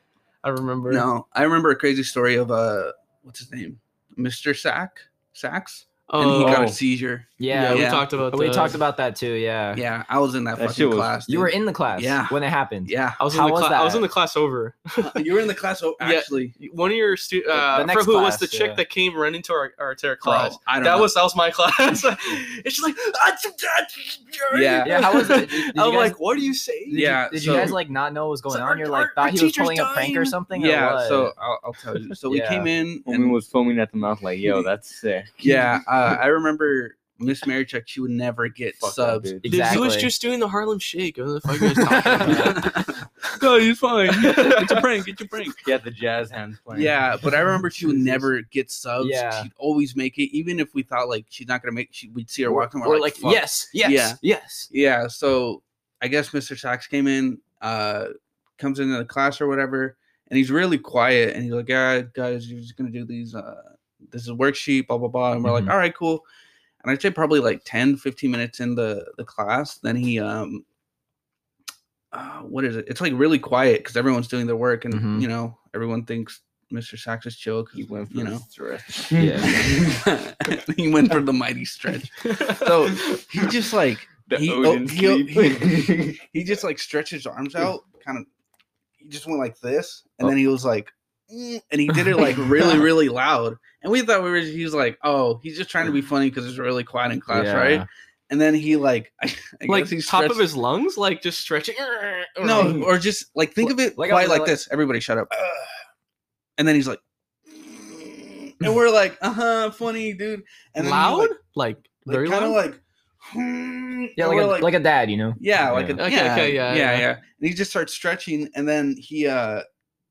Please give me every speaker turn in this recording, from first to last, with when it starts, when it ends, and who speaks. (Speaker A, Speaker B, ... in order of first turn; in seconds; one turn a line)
Speaker A: 0.4-1.1
Speaker B: 0.9-8.1
Speaker A: 6.1-6.7
Speaker C: 6.4-6.8
Speaker D: 7.4-9.8
Speaker A: 7.5-8.8
Speaker B: 9.7-13.2
Speaker C: 10.6-11.2
Speaker D: 11.3-14.1
Speaker A: 13.2-15.2
Speaker B: 15.0-16.6
Speaker A: 16.0-27.8
Speaker D: 17.5-18.8
Speaker B: 20.2-21.1
Speaker B: 24.5-25.1
Speaker D: 24.8-26.2
Speaker D: 26.9-31.3
Speaker B: 26.9-27.8
Speaker A: 28.5-30.4
Speaker B: 30.5-33.4
Speaker D: 32.3-32.7
Speaker C: 33.1-35.7
Speaker B: 35.4-39.4
Speaker C: 38.8-39.5
Speaker D: 39.4-40.1
Speaker A: 39.5-42.7
Speaker D: 42.1-42.5
Speaker B: 42.3-45.6
Speaker A: 44.1-44.9
Speaker C: 45.6-47.0
Speaker B: 46.7-66.2
Speaker D: 49.0-49.5
Speaker D: 52.5-54.7
Speaker D: 65.4-65.7
Speaker B: 66.8-70.6
Speaker B: 72.1-78.4
Speaker D: 74.9-75.3
Speaker C: 77.8-80.0
Speaker D: 79.2-79.5
Speaker B: 79.4-88.3
Speaker A: 82.3-83.2
Speaker C: 84.3-86.2
Speaker B: 89.0-100.5
Speaker D: 92.1-92.4
Speaker D: 97.3-97.9
Speaker A: 99.7-102.9
Speaker B: 102.4-105.7
Speaker D: 103.6-104.6
Speaker B: 106.6-111.3
Speaker A: 110.8-112.6
Speaker B: 112.1-114.8
Speaker D: 114.2-116.0
Speaker B: 115.4-119.7
Speaker A: 116.0-117.1